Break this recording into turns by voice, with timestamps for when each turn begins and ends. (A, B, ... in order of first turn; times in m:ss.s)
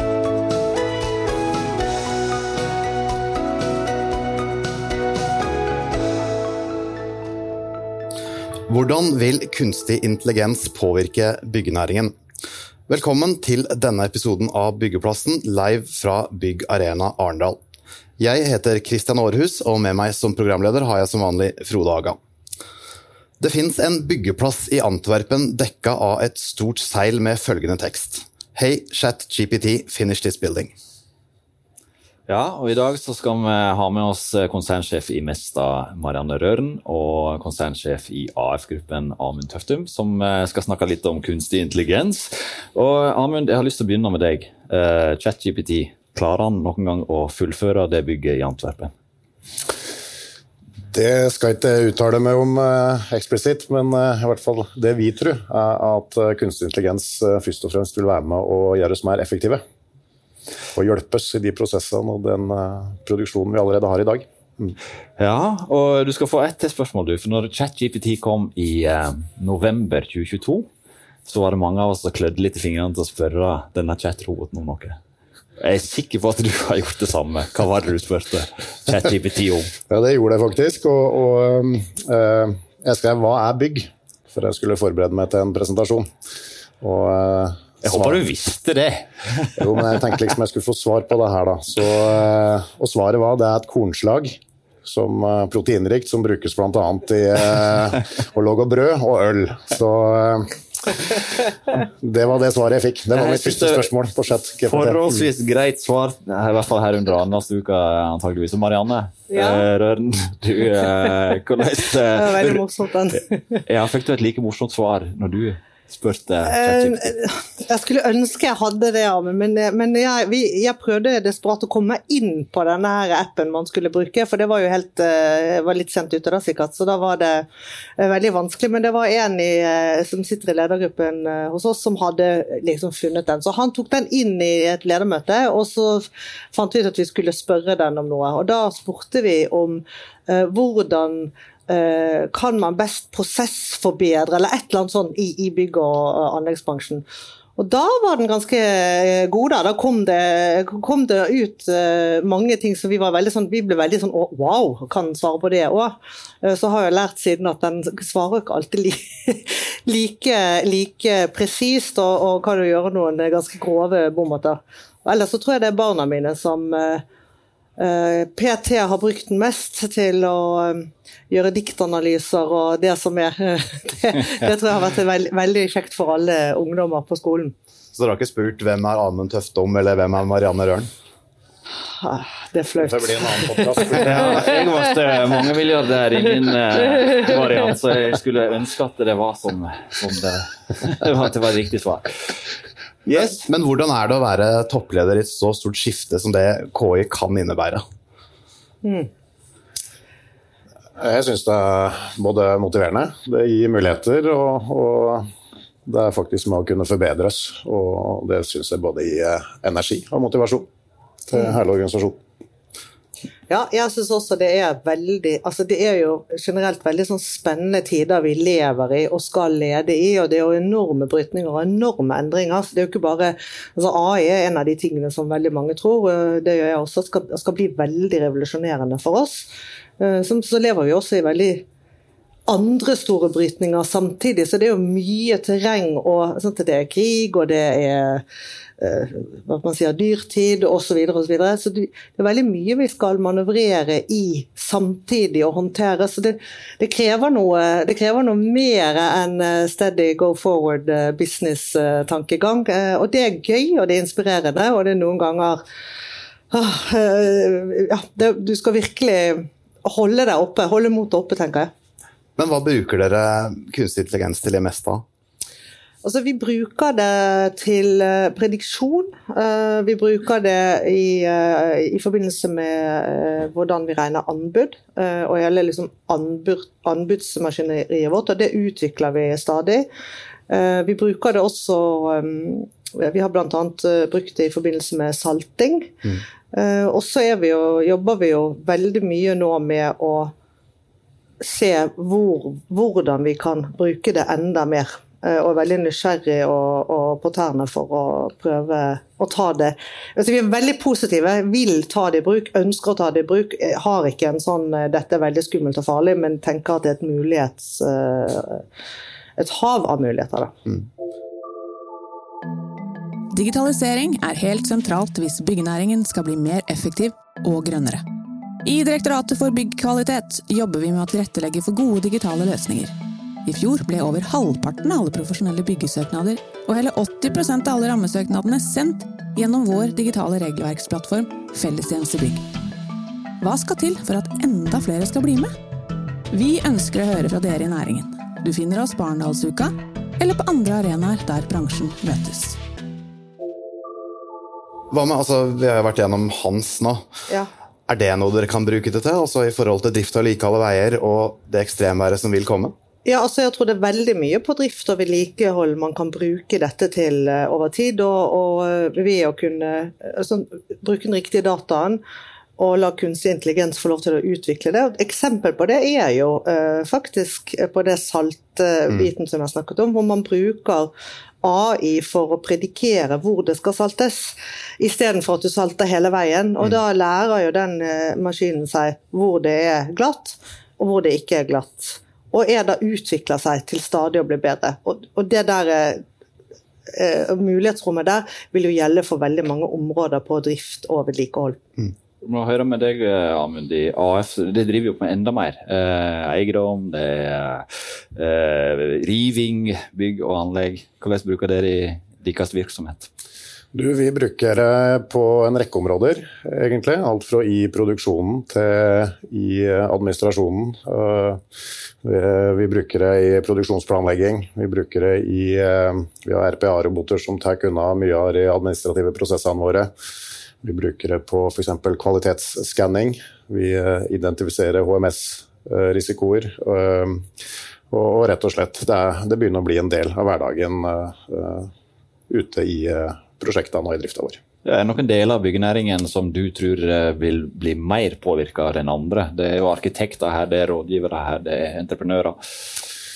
0:08.7-0:12.2 A
0:12.9-0:17.6 A
0:18.2-0:22.2 A
0:23.4-0:30.8 A
0:32.3-0:48.9 B
0:50.9-0:59.6 C
1:00.7-1:04.8 C
1:05.2-1:10.7 B
1:11.3-1:15.0 B
1:15.6-1:19.7 B
1:19.9-1:26.1 C
1:26.8-1:28.2 C
1:27.8-1:29.6 B
1:29.6-1:41.2 C
1:41.7-1:45.3 C
1:43.1-1:43.9 B
1:44.6-1:52.6 B
1:49.3-1:49.7 D
1:52.1-1:53.6 D
1:53.7-1:57.1 B
1:56.5-2:07.5 D
2:08.0-2:27.0 D
2:27.6-2:47.0 D
2:47.8-2:57.5 D
2:58.0-3:00.9 A
3:02.0-3:04.3 D
3:02.8-3:04.4 C
3:04.0-3:12.4 B
3:13.1-3:17.8 A
3:18.8-3:19.1 D
3:21.0-3:25.3 C
3:25.8-3:30.7 C
3:31.3-3:32.2 C
3:33.5-3:51.6 D
3:52.5-3:58.2 D
3:58.8-4:15.6 D
4:16.5-4:21.7 D
4:22.4-4:25.0 A
4:26.0-4:39.9 D
4:40.5-4:50.3 D
4:51.4-5:08.6 D
5:09.4-5:10.6 D
5:13.3-5:18.0 E
5:18.6-5:32.5 E
5:33.4-5:35.5 E
5:36.3-5:42.6 E
5:44.9-5:47.1 A
5:47.9-5:52.7 A
5:53.0-6:02.0 D
6:02.6-6:10.9 D
6:11.4-6:26.0 D
6:26.9-6:31.6 D
6:32.2-6:43.1 B
6:43.7-6:51.4 C
6:52.0-6:59.9 C
7:00.6-7:07.3 C
7:07.9-7:11.7 C
7:12.3-7:14.4 C
7:14.6-7:22.4 B